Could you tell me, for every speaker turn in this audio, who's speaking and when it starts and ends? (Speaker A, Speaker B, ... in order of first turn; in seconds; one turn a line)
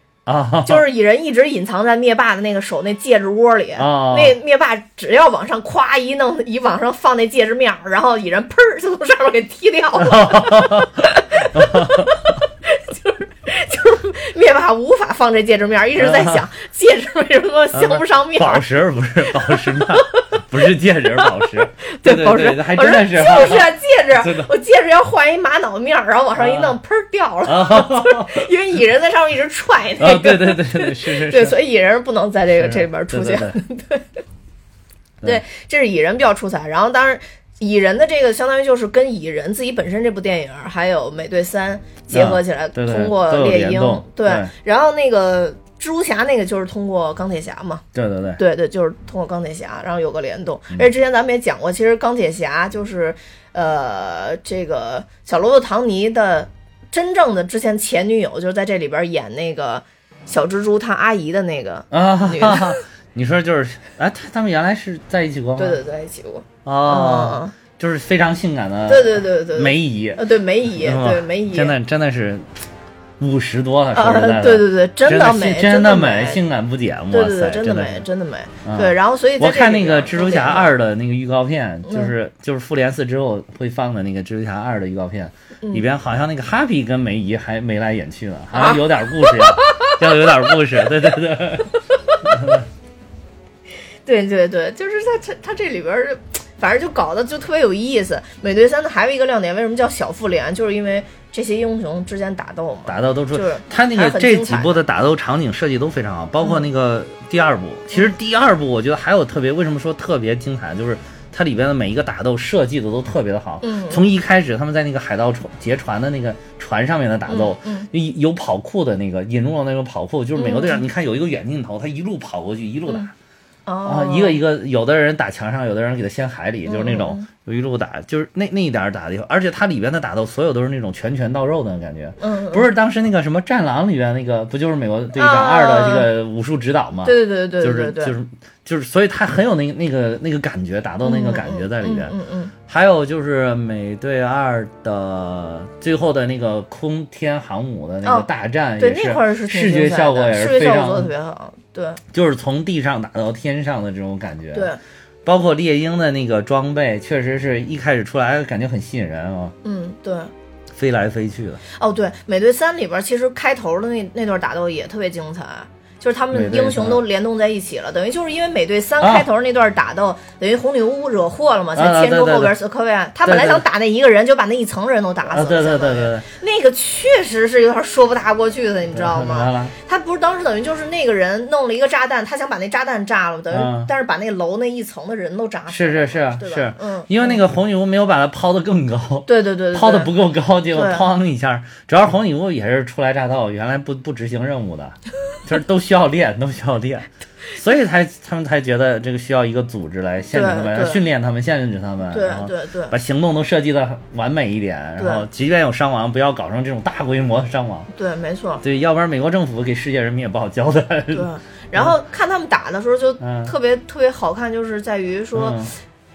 Speaker A: 0.2-0.8
Speaker B: 0.6-18.6
Speaker A: 3.8-4.4
Speaker A: 10.0-12.2
Speaker A: 16.0-16.4
Speaker A: 17.7-24.5
Speaker B: 19.3-20.4
Speaker B: 21.0-34.2
Speaker A: 26.4-26.8
Speaker A: 27.4-28.5
Speaker A: 30.0-31.6
Speaker A: 32.5-33.6
Speaker B: 35.2-47.8
Speaker A: 42.1-44.5
Speaker A: 47.9-48.4
Speaker B: 48.4-62.8
Speaker A: 61.9-65.8
Speaker B: 65.5-67.5
Speaker A: 66.6-72.5
Speaker B: 68.9-71.8
Speaker A: 73.2-78.0
Speaker B: 73.9-76.4
Speaker B: 77.1-80.7
Speaker A: 78.6-92.7
Speaker B: 81.9-82.1
Speaker B: 88.5-90.6
Speaker B: 91.9-92.2
Speaker B: 94.0-104.8
Speaker A: 102.9-123.1
Speaker B: 113.6-114.0
Speaker B: 117.3-117.9
Speaker B: 120.3-120.8
Speaker B: 123.7-124.4
Speaker A: 123.8-142.1
Speaker B: 126.7-127.3
Speaker B: 132.2-132.7
Speaker B: 135.1-136.1
Speaker B: 137.0-138.1
Speaker B: 141.0-142.5
Speaker A: 142.7-151.1
Speaker B: 148.8-152.0
Speaker A: 152.1-154.7
Speaker B: 154.5-154.8
Speaker A: 155.2-159.5
Speaker B: 159.6-160.3
Speaker A: 160.7-161.6
Speaker B: 161.7-187.4
Speaker A: 166.3-167.0
Speaker A: 169.0-169.3
Speaker A: 171.7-172.5
Speaker A: 173.2-173.6
Speaker A: 175.3-176.3
Speaker A: 178.9-179.7
Speaker A: 183.5-183.9
Speaker A: 185.7-207.9
Speaker B: 189.3-190.1
Speaker B: 190.7-191.1
Speaker B: 200.3-201.0
Speaker B: 202.1-202.9
Speaker B: 205.0-205.2
Speaker B: 207.9-208.6
Speaker A: 208.6-211.9
Speaker B: 211.1-215.7
Speaker A: 213.2-213.5
Speaker A: 215.3-215.7